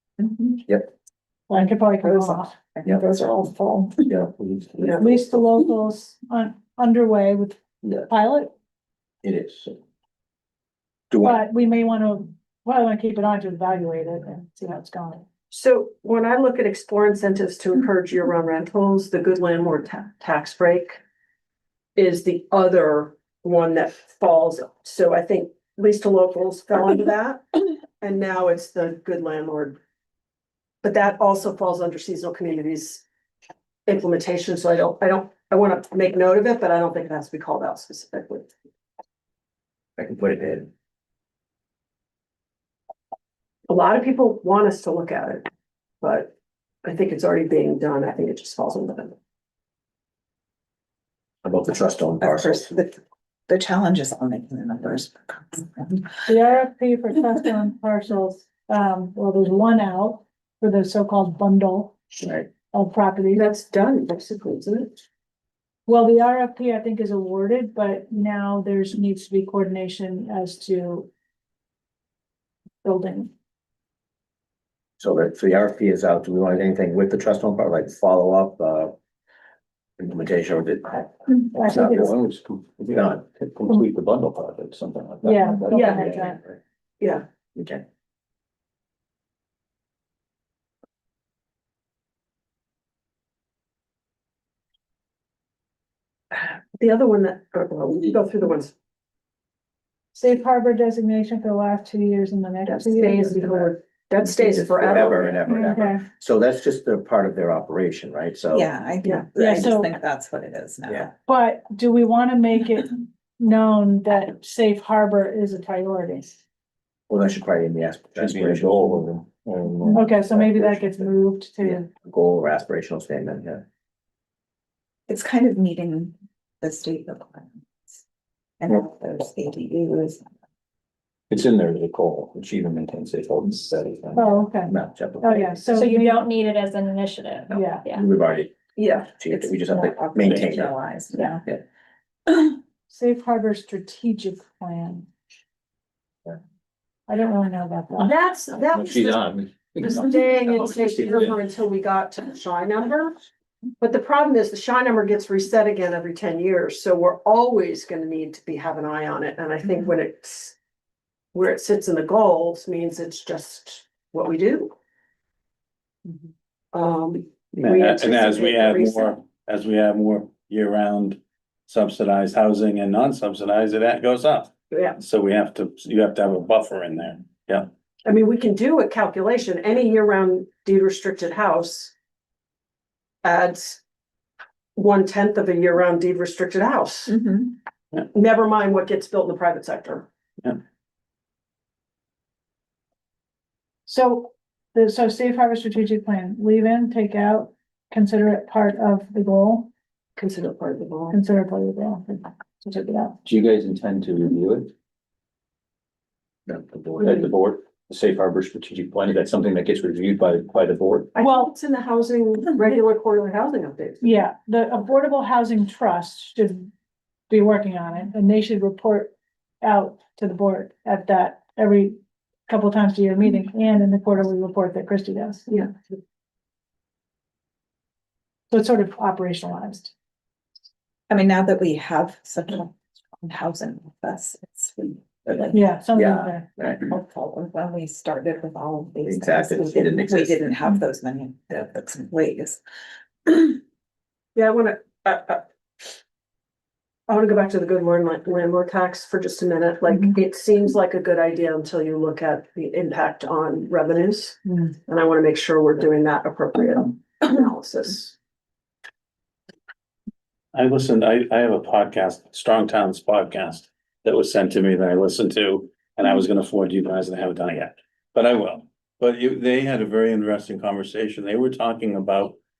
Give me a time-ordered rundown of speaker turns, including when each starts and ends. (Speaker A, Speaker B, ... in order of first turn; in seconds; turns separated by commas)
Speaker A: 0.2-0.6, Speaker B: 1.5-2.5, Speaker A: 1.6-4.1, Speaker C: 4.1-5.0, Speaker B: 5.0-8.5, Speaker C: 9.2-9.8, Speaker C: 11.1-11.4, Speaker B: 11.2-15.3, Speaker D: 15.5-21.0, Speaker D: 22.0-29.8, Speaker D: 30.8-33.0, Speaker D: 33.9-38.5, Speaker C: 40.0-40.7, Speaker D: 43.7-45.5, Speaker D: 46.0-46.3, Speaker D: 46.8-49.2, Speaker C: 51.4-52.8, Speaker A: 52.2-56.2, Speaker B: 56.2-62.0, Speaker C: 62.2-62.5, Speaker B: 62.7-63.5, Speaker D: 63.3-65.0, Speaker B: 65.9-71.1, Speaker B: 72.8-73.3, Speaker C: 75.0-79.0, Speaker C: 80.0-82.2, Speaker B: 81.5-82.1, Speaker E: 81.7-86.2, Speaker C: 82.9-83.2, Speaker B: 85.2-86.4, Speaker D: 85.7-86.1, Speaker C: 86.1-86.4, Speaker D: 87.0-87.2, Speaker C: 87.5-87.8, Speaker D: 96.8-98.7, Speaker B: 100.1-103.7, Speaker D: 102.7-105.4, Speaker C: 104.3-108.7, Speaker B: 105.5-106.1, Speaker A: 108.5-111.1, Speaker B: 109.3-109.9, Speaker B: 111.3-116.4, Speaker C: 117.1-119.1, Speaker E: 118.2-120.0, Speaker B: 119.9-121.9, Speaker C: 120.3-121.1, Speaker C: 121.6-123.6, Speaker A: 125.1-128.0, Speaker A: 128.6-130.3, Speaker E: 131.3-134.3, Speaker B: 134.2-136.3, Speaker C: 134.7-135.6, Speaker F: 135.6-138.1, Speaker B: 137.5-137.9, Speaker C: 137.9-138.5, Speaker D: 138.8-139.1, Speaker C: 139.2-140.7, Speaker A: 139.3-141.5, Speaker B: 142.9-145.1, Speaker B: 147.1-148.1, Speaker D: 148.0-149.2, Speaker E: 148.7-151.3, Speaker D: 149.8-153.2, Speaker D: 153.8-160.6, Speaker D: 161.3-164.7, Speaker D: 166.1-169.2, Speaker G: 167.6-177.7, Speaker D: 174.7-175.0, Speaker D: 178.1-181.9, Speaker D: 183.2-183.8, Speaker D: 184.8-187.2, Speaker A: 187.1-187.5, Speaker D: 187.9-190.1, Speaker B: 193.9-199.7, Speaker D: 200.2-201.2, Speaker B: 201.1-203.2, Speaker E: 203.2-204.7, Speaker C: 206.5-207.2, Speaker E: 207.0-211.1, Speaker D: 211.2-214.2, Speaker B: 211.2-211.5, Speaker B: 214.0-216.7, Speaker B: 217.3-225.6, Speaker B: 228.5-229.9, Speaker A: 231.1-235.7, Speaker B: 235.5-236.5, Speaker C: 235.9-236.8, Speaker A: 236.6-242.6, Speaker C: 239.1-240.4, Speaker A: 243.3-243.6, Speaker D: 244.3-245.4, Speaker D: 247.1-258.1, Speaker G: 260.5-272.4